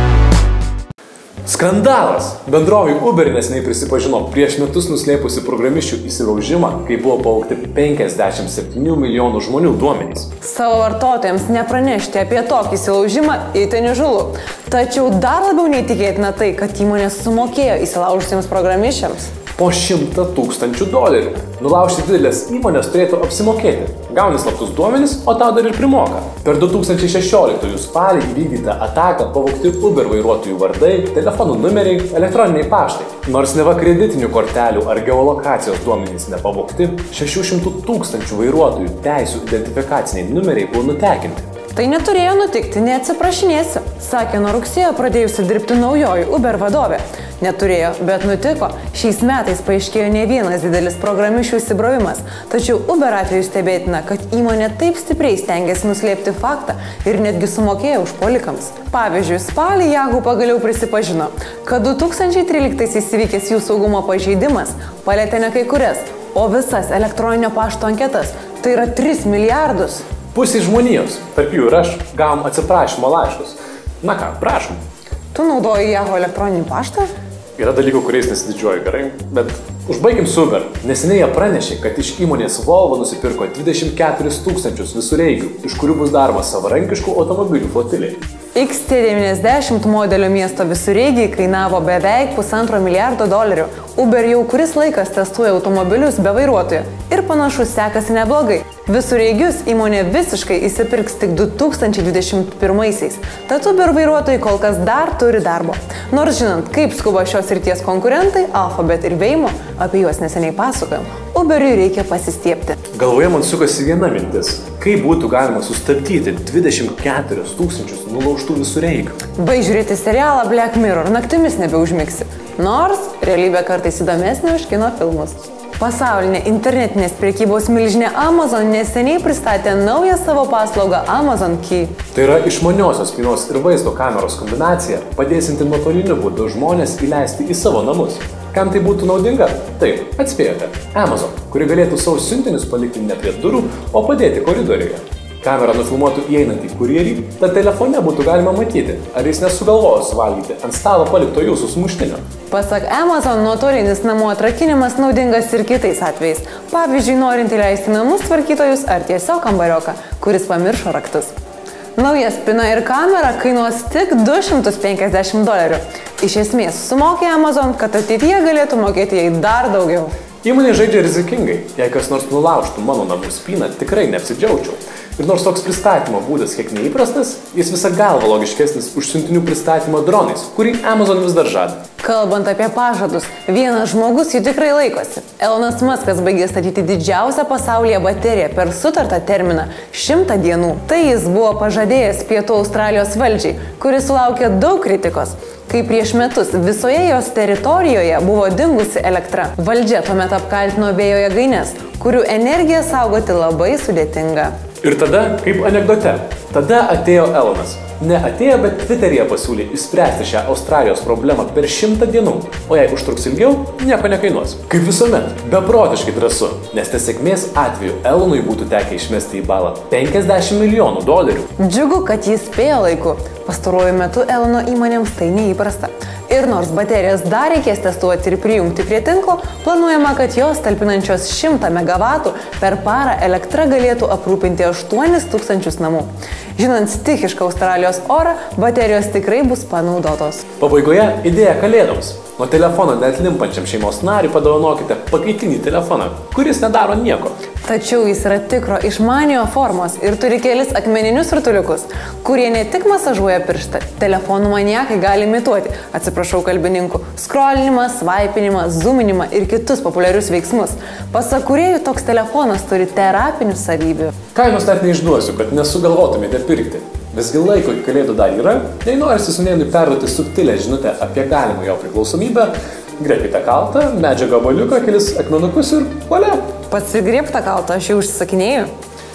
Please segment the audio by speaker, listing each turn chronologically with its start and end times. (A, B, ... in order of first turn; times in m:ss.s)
0:01.4-0:10.3 A
0:10.4-0:19.3 B
0:19.6-0:41.5 A
0:41.7-1:10.0 B
1:10.3-1:14.8 A
1:15.3-1:17.1 B
1:17.6-1:28.2 A
1:28.5-1:52.8 B
1:52.9-1:59.2 A
1:59.4-2:12.0 B
2:12.1-2:32.2 A
2:32.5-2:41.3 B
2:42.0-2:50.1 B
2:50.4-3:01.8 A
3:02.0-3:24.5 B
3:24.8-3:41.5 A
3:41.6-4:00.4 B
4:00.6-4:07.3 A
4:07.6-4:24.1 B
4:24.3-4:36.5 A
4:36.7-4:38.7 B